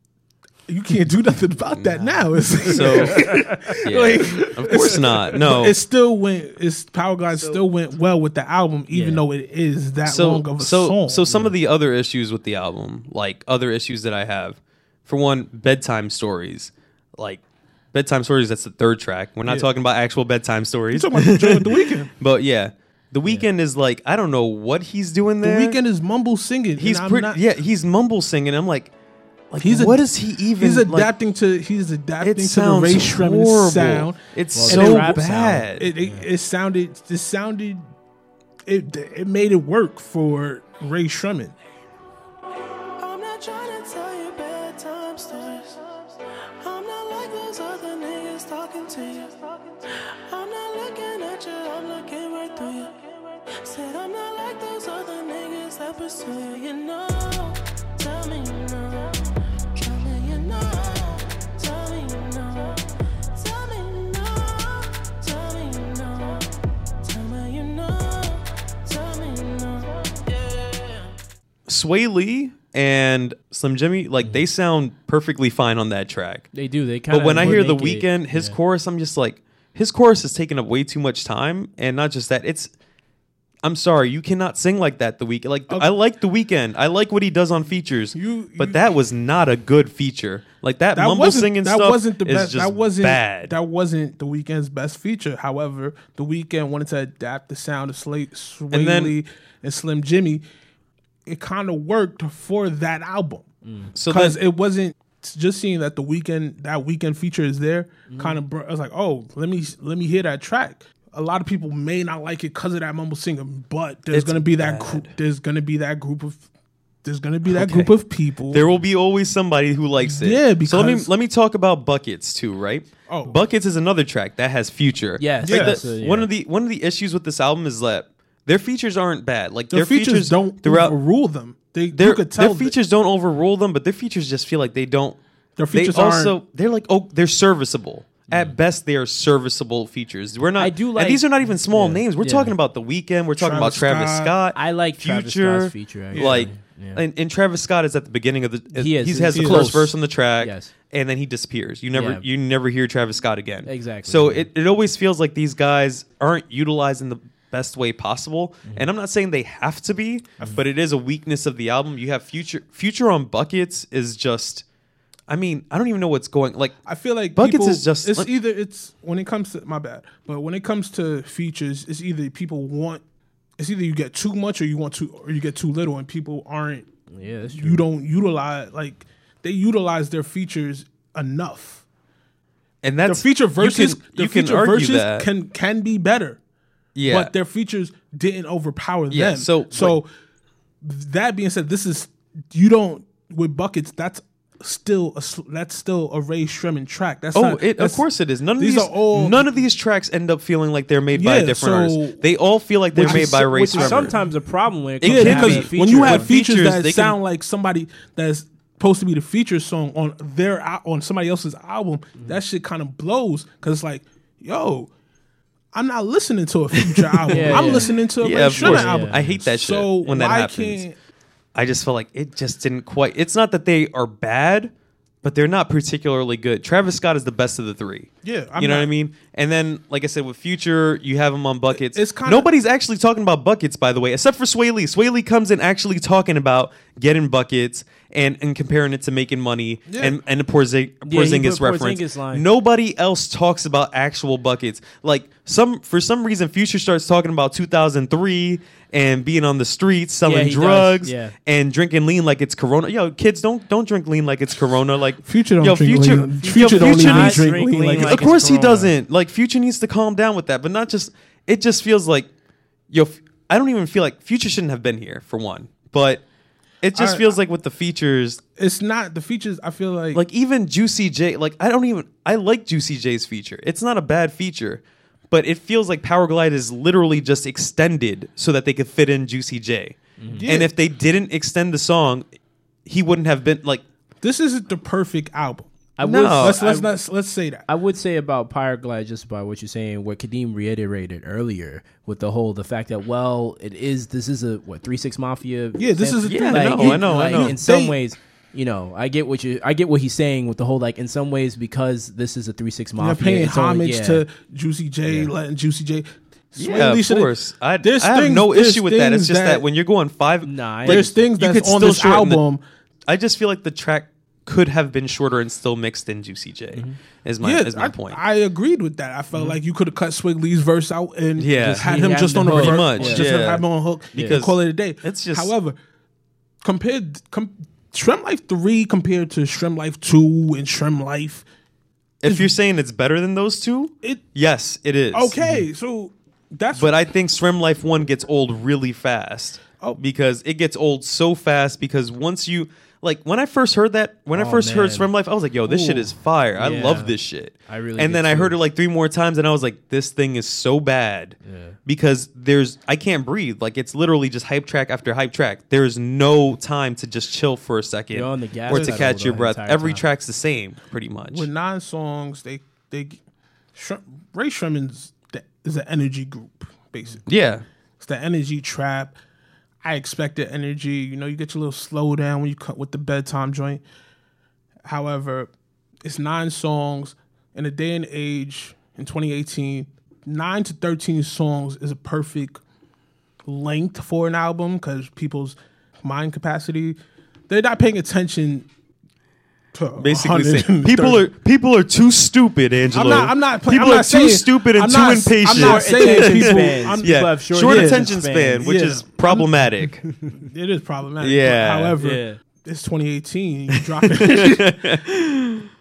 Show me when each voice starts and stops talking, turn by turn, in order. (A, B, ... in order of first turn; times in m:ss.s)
0:00.7-0:11.2 A
0:01.8-0:05.8 B
0:03.3-0:03.7 C
0:07.3-0:07.6 C
0:08.9-0:09.2 C
0:10.0-0:17.4 B
0:11.3-0:11.5 C
0:17.9-0:25.8 B
0:20.9-0:22.1 A
0:25.4-0:27.4 A
0:26.8-0:28.9 B
0:29.5-0:31.1 B
0:29.6-0:30.0 A
0:30.6-0:37.9 A
0:32.2-0:35.9 B
0:34.5-0:36.3 C
0:38.7-0:41.6 A
0:43.0-1:11.1 D
1:11.7-1:16.5 B
1:16.5-1:18.6 C
1:17.1-1:22.7 B
1:23.6-1:33.6 B
1:28.1-1:28.9 A
1:31.0-1:40.4 A
1:38.7-1:39.2 B
1:41.3-1:43.5 A
1:43.6-1:43.9 C
1:44.0-1:44.4 B
1:44.1-1:56.5 A
1:48.1-1:48.4 C
1:54.1-1:55.1 B
1:57.0-1:58.6 A
1:57.5-1:57.9 B
1:58.5-2:11.0 B
2:00.0-2:01.1 A
2:03.1-2:03.4 A
2:05.2-2:06.3 C
2:05.4-2:05.8 A
2:09.7-2:12.7 A
2:11.9-2:15.2 B
2:15.6-2:16.4 A
2:15.7-2:44.6 B
2:18.3-2:18.6 C
2:20.6-2:22.6 C
2:23.4-2:24.4 A
2:24.5-2:27.0 C
2:26.1-2:26.5 A
2:28.7-2:30.7 C
2:29.3-2:29.9 A
2:31.9-2:32.2 C
2:33.7-2:34.5 C
2:45.3-2:46.8 B
2:46.9-2:53.0 A
2:47.3-2:48.3 B
2:53.6-2:56.9 A
2:57.1-2:57.8 C
2:57.5-3:01.8 A
3:02.8-3:05.3 B
3:03.1-3:06.4 A
3:07.0-3:07.3 B
3:07.1-3:10.1 A
3:09.1-3:10.0 B
3:10.8-3:18.0 A
3:17.3-3:24.1 B
3:18.6-3:19.6 A
3:21.1-3:22.2 A
3:23.0-3:24.3 A
3:23.0-3:26.3 C
3:25.0-3:27.2 B
3:25.0-3:34.9 A
3:35.7-3:41.0 A
3:36.8-3:40.8 B
3:37.3-3:37.9 C
3:38.6-3:39.3 C
3:41.6-3:44.7 B
3:45.2-4:22.3 B
3:48.2-3:48.9 A
3:51.7-3:52.5 A
3:59.9-4:00.2 A
4:01.0-4:02.5 C
4:10.2-4:11.4 C
4:15.2-4:18.3 A
4:16.5-4:18.9 C
4:22.9-4:26.2 B
4:26.8-4:28.4 B
4:27.0-4:27.3 A
4:28.6-4:30.2 A
4:30.1-4:42.3 B
4:40.2-4:40.5 C
4:40.3-4:40.7 A
4:42.9-4:43.8 B
4:44.2-4:45.7 A
4:46.0-4:46.9 C
4:46.0-4:46.6 B
4:46.4-4:47.7 A
4:47.7-5:04.2 C
4:55.8-4:58.0 A
4:56.2-4:57.6 B
5:03.0-5:09.6 A
5:05.1-5:05.3 C
5:06.6-5:12.4 B
5:10.4-5:11.2 C
5:10.8-5:12.6 A
5:13.1-5:18.2 B
5:17.4-5:25.8 A
5:21.4-5:21.9 B
5:21.7-5:23.3 C
5:22.5-5:25.5 B
5:24.1-5:24.4 C
5:26.6-5:31.4 A
5:32.2-5:35.4 B
5:32.3-5:32.5 A
5:35.1-5:36.9 A
5:35.4-5:35.7 C
5:36.7-6:01.5 B
5:44.3-5:45.1 C
5:45.7-5:46.1 A
5:46.6-5:47.2 C
5:47.7-5:48.6 C
5:51.4-5:51.8 C
5:58.1-6:00.0 C
5:58.7-5:59.1 A
6:01.3-6:03.2 A
6:03.8-6:07.2 A
6:07.3-6:07.6 B
6:08.0-6:09.2 A
6:09.8-6:13.8 A
6:14.8-6:15.5 A
6:16.0-6:22.6 A
6:23.5-6:27.0 A
6:27.5-6:28.7 A
6:29.7-6:31.2 A
6:30.0-6:40.0 B
6:32.9-6:39.5 A
6:35.5-6:38.7 C
6:40.3-6:44.8 A
6:41.2-6:42.0 B
6:42.0-6:42.4 C
6:44.0-6:45.7 B